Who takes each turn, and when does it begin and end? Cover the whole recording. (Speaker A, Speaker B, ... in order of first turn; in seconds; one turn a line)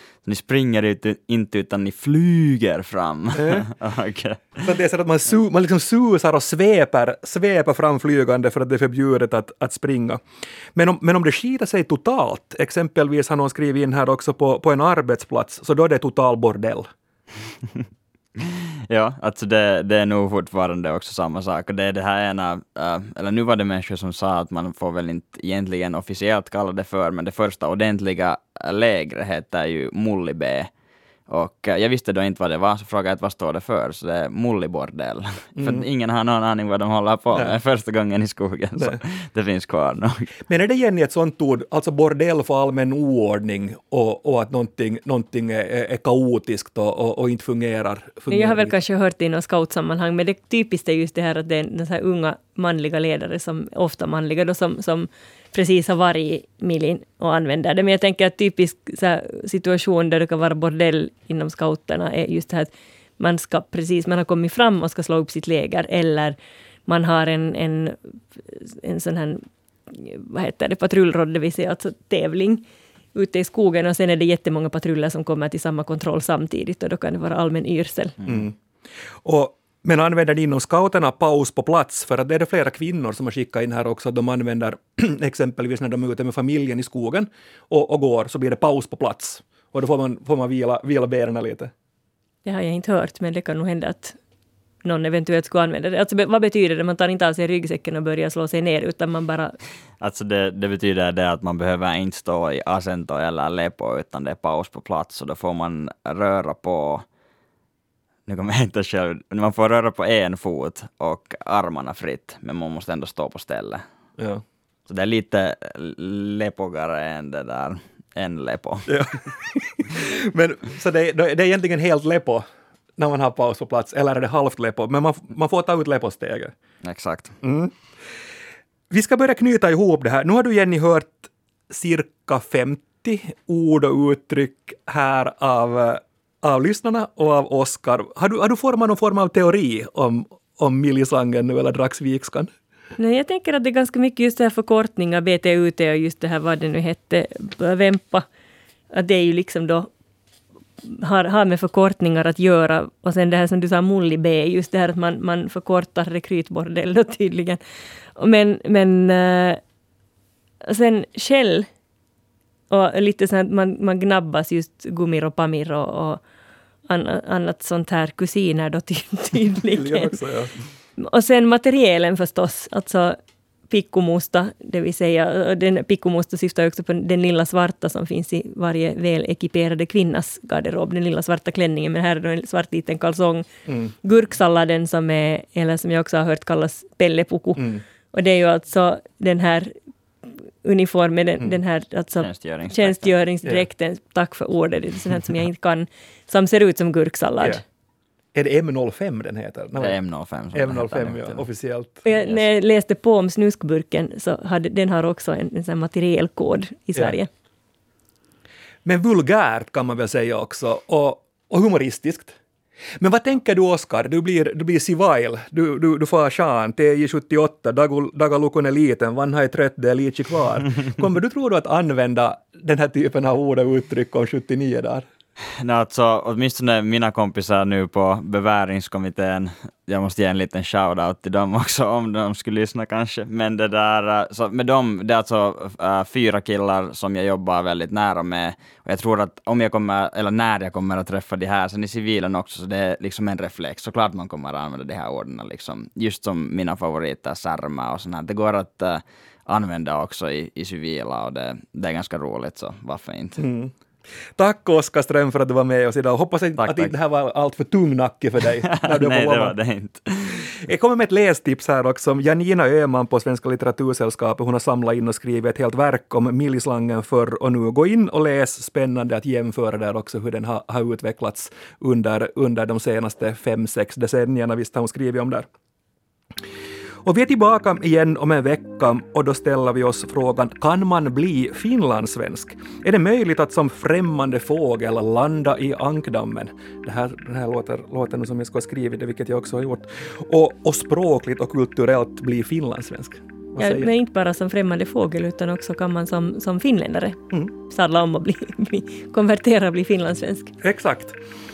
Speaker A: 0.2-4.6
Speaker B: 3.3-3.7
Speaker B: 4.6-10.2
Speaker B: 10.7-16.9
Speaker A: 18.4-30.7
Speaker A: 31.3-40.3
Speaker B: 35.5-35.8
Speaker B: 37.3-37.6
Speaker B: 40.5-48.7
Speaker C: 48.3-72.6
Speaker C: 73.1-78.2
Speaker B: 78.2-78.5
Speaker B: 79.2-91.7
Speaker C: 92.4-94.2
Speaker C: 94.8-99.5
Speaker A: 100.0-107.0
Speaker A: 108.3-113.8
Speaker B: 114.2-114.4
Speaker A: 114.9-118.9
Speaker B: 118.9-122.4
Speaker B: 123.0-126.5
Speaker A: 126.8-127.3
Speaker B: 127.4-127.7
Speaker B: 128.9-142.5
Speaker C: 143.0-148.2
Speaker C: 148.9-149.9
Speaker C: 150.8-157.6
Speaker C: 158.2-159.6
Speaker C: 160.6-161.7
Speaker C: 162.7-166.2
Speaker C: 166.9-170.2
Speaker B: 169.7-170.5
Speaker C: 171.0-173.2
Speaker C: 173.7-183.5
Speaker B: 183.7-183.9
Speaker C: 184.0-189.7
Speaker B: 187.6-187.8
Speaker C: 190.6-197.6
Speaker A: 192.2-193.1
Speaker B: 198.3-199.9
Speaker A: 199.8-201.4
Speaker B: 200.5-202.1
Speaker C: 202.1-207.3
Speaker A: 202.2-202.4
Speaker B: 208.8-212.4
Speaker B: 213.0-225.1
Speaker A: 225.6-253.4
Speaker B: 253.4-253.7
Speaker B: 254.4-259.5
Speaker A: 256.6-256.9
Speaker A: 258.6-260.5
Speaker B: 260.6-275.5
Speaker B: 277.0-293.9
Speaker C: 293.6-300.5
Speaker B: 300.6-301.2